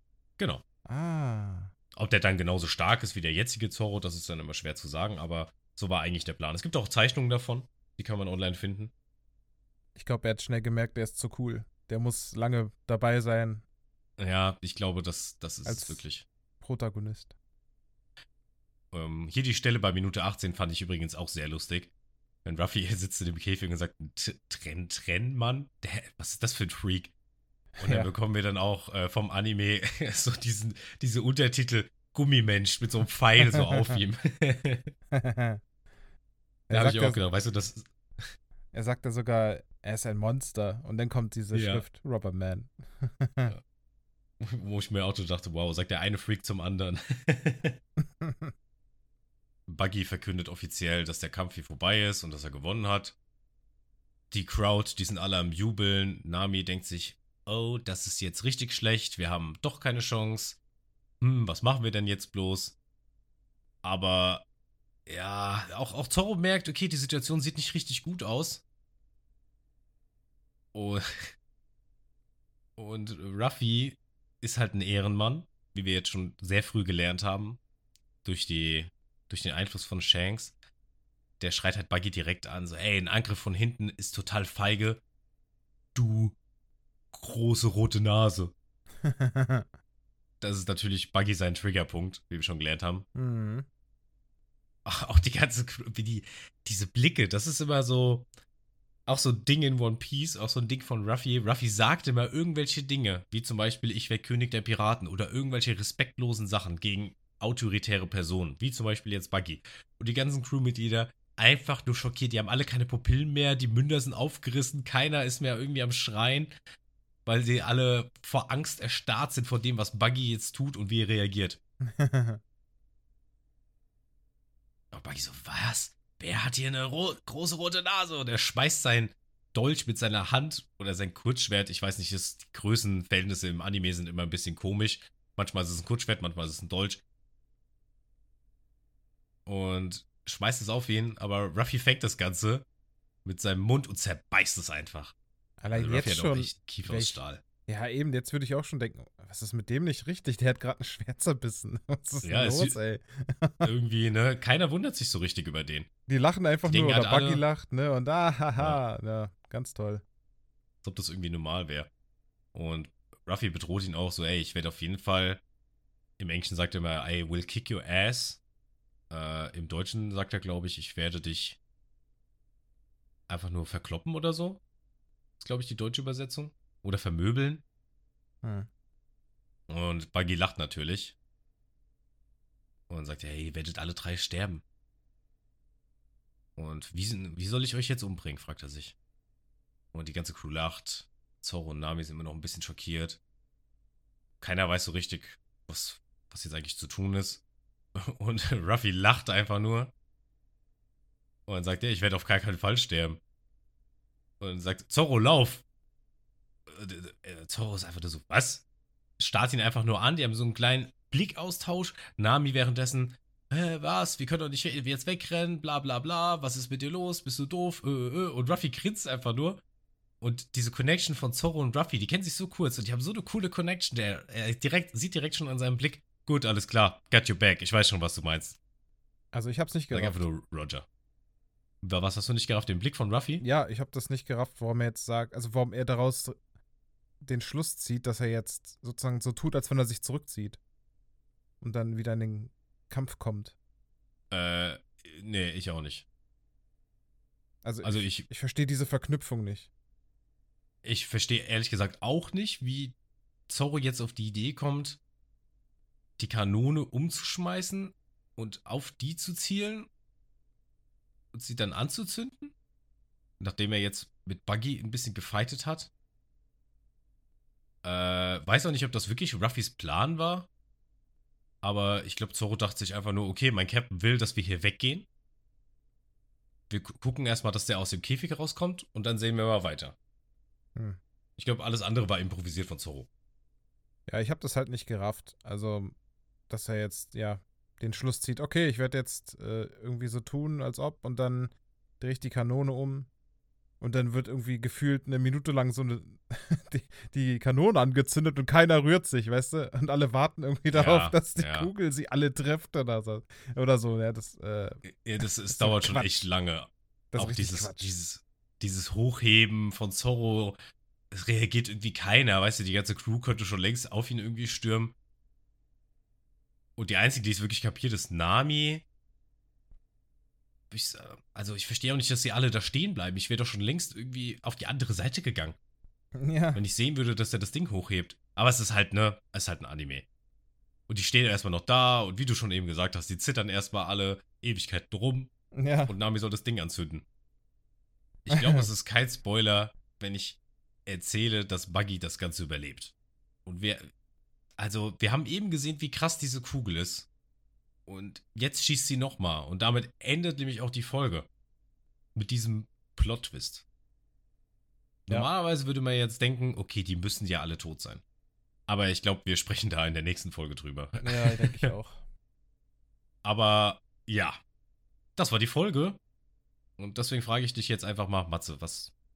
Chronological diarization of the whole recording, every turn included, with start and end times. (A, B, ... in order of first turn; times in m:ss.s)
0:00.4-0:00.6 A
0:00.9-0:01.7 B
0:02.0-0:08.9 A
0:10.0-0:13.6 B
0:14.2-0:16.2 A
0:15.6-0:16.0 B
0:16.6-0:17.3 B
0:18.9-0:21.9 A
0:22.4-0:27.1 A
0:27.8-0:28.1 B
0:27.8-0:34.9 A
0:35.1-0:35.6 B
0:36.7-0:37.2 B
0:36.7-0:38.3 A
0:38.7-0:43.5 B
0:41.5-0:41.9 A
0:44.4-0:47.8 A
0:48.2-0:48.5 B
0:49.7-0:53.2 A
0:54.3-1:00.6 A
1:01.2-1:02.8 A
1:03.8-1:04.4 A
1:05.1-1:08.6 A
1:10.7-1:11.3 A
1:12.8-1:17.6 A
1:18.2-1:20.6 A
1:21.4-1:25.0 A
1:26.0-1:26.4 A
1:27.1-1:28.5 A
1:29.0-1:29.7 B
1:30.4-1:33.0 A
1:33.2-1:33.7 B
1:34.8-1:38.3 A
1:39.1-1:56.5 A
1:57.3-2:01.6 A
2:01.9-2:02.4 B
2:04.9-2:17.0 A
2:19.5-2:22.6 A
2:23.2-2:25.1 A
2:25.6-2:33.7 B
2:25.7-2:27.4 A
2:32.2-2:32.8 A
2:33.6-2:35.9 A
2:36.1-2:40.0 B
2:36.6-2:37.4 A
2:40.8-2:41.9 A
2:42.5-2:45.4 A
2:46.2-2:48.4 A
2:49.1-2:51.6 A
2:53.3-2:54.6 A
2:55.4-2:57.6 A
2:59.7-3:01.2 A
3:02.9-3:04.6 A
3:06.6-3:09.0 A
3:09.9-3:13.2 A
3:14.4-3:17.4 A
3:18.0-3:19.9 A
3:21.5-3:23.2 A
3:24.4-3:25.6 A
3:26.7-3:28.6 A
3:29.2-3:39.6 A
3:40.2-3:48.6 A
3:49.3-3:50.3 B
3:49.9-3:50.9 A
3:51.8-3:53.4 A
3:53.4-3:56.4 B
3:57.2-4:00.6 B
4:01.6-4:03.6 B
4:04.3-4:06.0 A
4:07.6-4:09.7 B
4:07.8-4:08.3 A
4:10.8-4:13.0 A
4:13.5-4:15.0 A
4:16.2-4:19.9 A
4:21.3-4:22.5 A
4:23.4-4:25.9 A
4:27.8-4:30.5 A
4:31.6-4:35.1 A
4:36.7-4:40.0 A
4:41.4-4:43.1 A
4:44.1-4:46.0 B
4:46.5-4:53.1 B
4:53.8-5:06.2 B
5:00.7-5:01.7 A
5:04.8-5:10.6 A
5:07.1-5:07.9 B
5:11.1-5:15.0 A
5:16.8-5:18.8 A
5:20.7-5:25.6 A
5:26.2-5:26.6 B
5:26.6-5:30.1 A
5:30.9-5:35.3 A
5:35.6-5:35.9 B
5:35.9-5:37.0 A
5:38.3-5:42.9 A
5:38.3-5:38.7 B
5:43.5-5:43.8 A
5:44.6-5:47.1 A
5:47.9-5:51.3 A
5:52.2-5:53.6 A
5:55.1-5:58.0 A
5:58.7-6:01.7 A
6:01.0-6:02.0 B
6:03.2-6:04.4 A
6:05.2-6:06.0 A
6:06.8-6:08.9 A